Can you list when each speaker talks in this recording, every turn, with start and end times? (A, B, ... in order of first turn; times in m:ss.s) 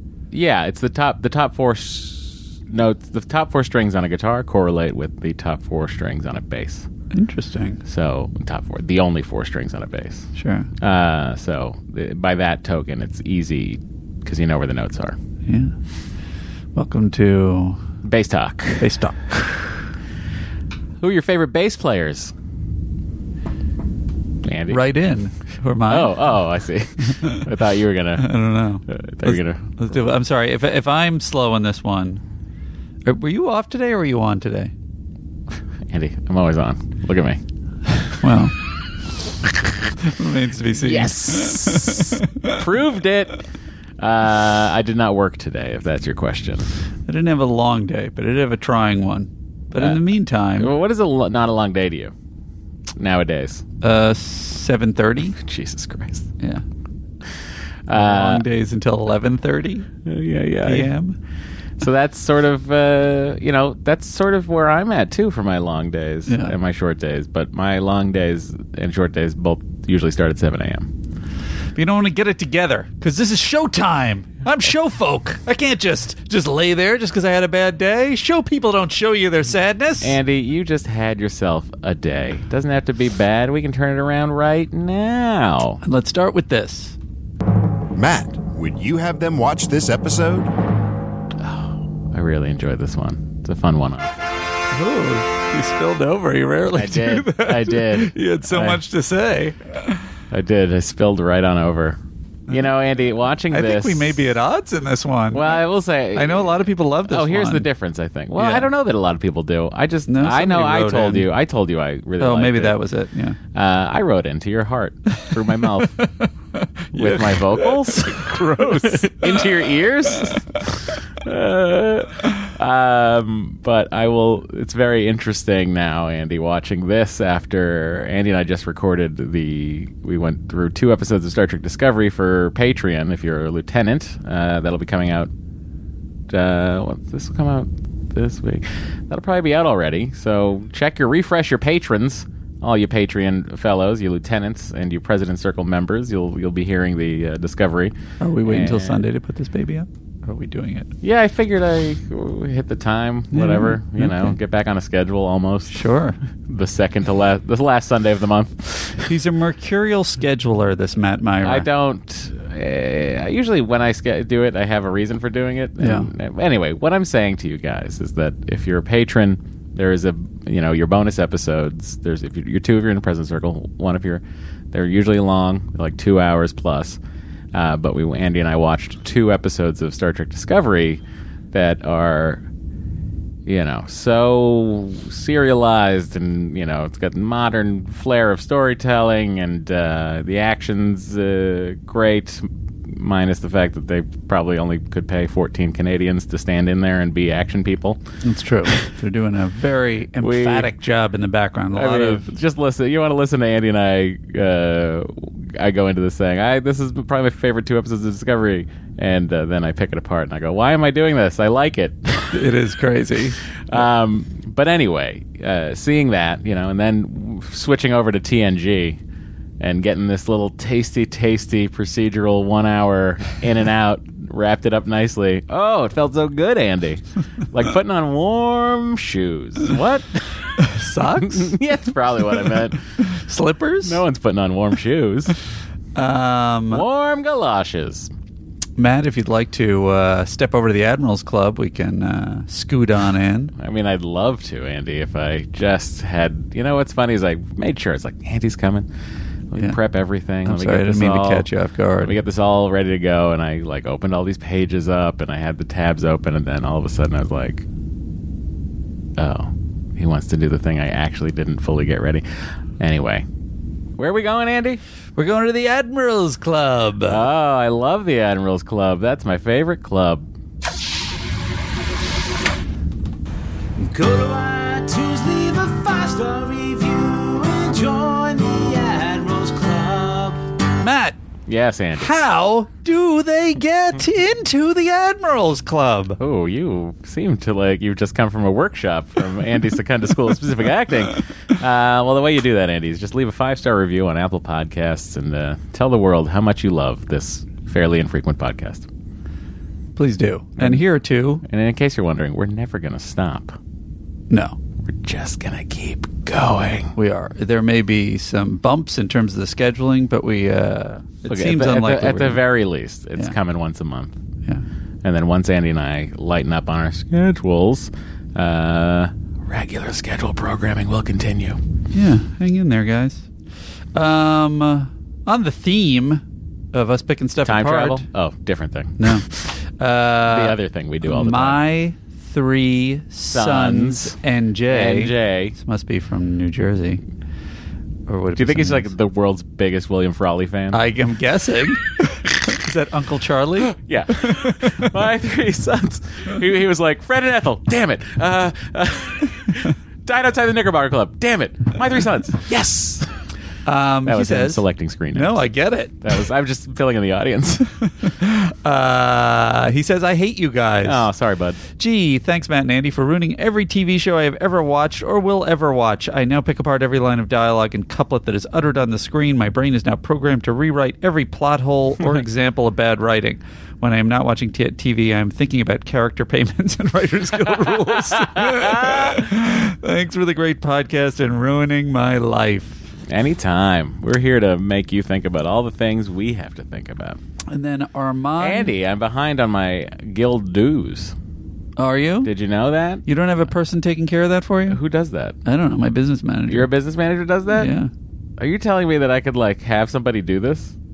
0:00.3-0:06.9 A
0:07.1-0:07.8 B
0:07.8-0:10.3 A
0:10.4-0:10.7 B
0:10.8-0:15.2 A
0:15.5-0:15.8 B
0:16.7-0:17.8 B
0:18.0-0:18.9 A
0:18.8-0:19.9 B
0:21.0-0:22.3 A
0:24.4-0:24.8 A
0:24.7-0:26.2 B
0:25.9-0:28.3 A
0:27.2-0:27.4 B
0:28.2-0:32.2 B
0:28.9-0:29.7 A
0:33.0-0:34.7 B
0:35.9-0:37.4 A
0:38.2-0:38.6 B
0:40.0-0:42.6 B
0:40.8-0:43.4 A
0:44.0-0:46.7 A
0:47.1-0:50.7 B
0:49.8-0:50.0 A
0:50.6-0:52.1 A
0:53.0-0:53.6 A
0:53.8-0:55.4 B
0:55.4-0:56.3 A
0:57.9-0:58.4 A
0:57.9-0:59.9 B
1:00.0-1:00.9 A
1:00.6-1:01.2 B
1:01.8-1:10.9 A
1:06.3-1:06.6 B
1:11.8-1:20.2 B
1:20.0-1:25.8 A
1:25.8-1:27.0 B
1:28.0-1:30.5 C
1:31.4-1:34.2 A
1:34.7-1:40.0 B
1:36.7-1:38.8 A
1:40.3-1:44.3 A
1:43.5-1:47.7 B
1:45.3-1:52.8 A
1:48.4-1:48.7 B
1:50.1-1:51.3 B
1:52.2-1:53.4 B
1:53.5-1:56.0 A
1:55.8-1:59.5 B
1:57.0-2:15.3 A
2:16.3-2:29.0 A
2:28.2-2:30.9 B
2:31.0-2:35.8 A
2:33.3-2:34.4 B
2:35.7-2:36.2 B
2:36.5-2:39.1 A
2:39.0-2:41.7 B
2:41.4-2:57.0 A
2:45.8-2:46.1 B
2:57.5-3:01.0 A
3:01.5-3:02.4 A
3:03.5-3:18.0 A
3:18.2-3:22.3 B
3:20.2-3:20.7 A
3:21.7-3:32.4 A
3:32.3-3:33.8 B
3:33.7-3:39.0 A
3:39.6-3:52.8 A
3:50.6-3:51.6 B
3:52.4-3:54.0 B
3:53.8-3:55.4 A
3:56.0-3:56.8 B
3:56.7-3:58.1 A
3:58.8-4:03.5 B
4:03.6-4:08.9 A
4:09.5-4:11.5 A
4:10.4-4:12.2 B
4:12.0-4:17.6 A
4:19.2-4:22.2 A
4:22.8-4:23.3 A
4:24.0-4:24.8 A
4:25.2-4:27.2 B
4:27.0-4:30.3 A
4:33.8-4:40.4 D
4:40.8-4:41.2 B
4:41.5-4:42.1 A
4:42.0-4:46.2 B
4:46.2-4:58.9 A
5:00.0-5:01.4 B
5:00.6-5:00.8 A
5:01.4-5:03.6 A
5:04.3-5:04.6 B
5:04.8-5:06.9 A
5:07.0-5:12.4 B
5:11.3-5:14.2 A
5:15.0-5:21.6 A
5:21.9-5:23.3 B
5:23.9-5:28.0 B
5:27.4-5:29.2 A
5:29.0-5:37.0 B
5:30.2-5:31.6 A
5:33.3-5:34.2 A
5:34.7-5:35.6 A
5:38.1-5:38.9 B
5:38.4-5:40.8 A
5:40.7-5:44.9 B
5:43.8-5:53.1 A
5:53.6-5:56.0 B
5:54.1-5:55.4 A
5:56.0-5:57.8 A
5:58.0-6:01.1 B
6:00.8-6:01.6 A
6:01.7-6:22.9 B
6:17.5-6:19.2 A
6:23.1-6:27.2 A
6:27.5-6:28.7 B
6:28.4-6:31.2 A
6:31.8-6:32.3 B
6:32.2-6:33.1 A
6:33.1-6:34.8 B
6:34.7-6:35.4 A
6:35.4-6:36.7 B
6:36.5-6:37.7 A
6:37.5-6:37.9 B
6:38.4-6:40.8 A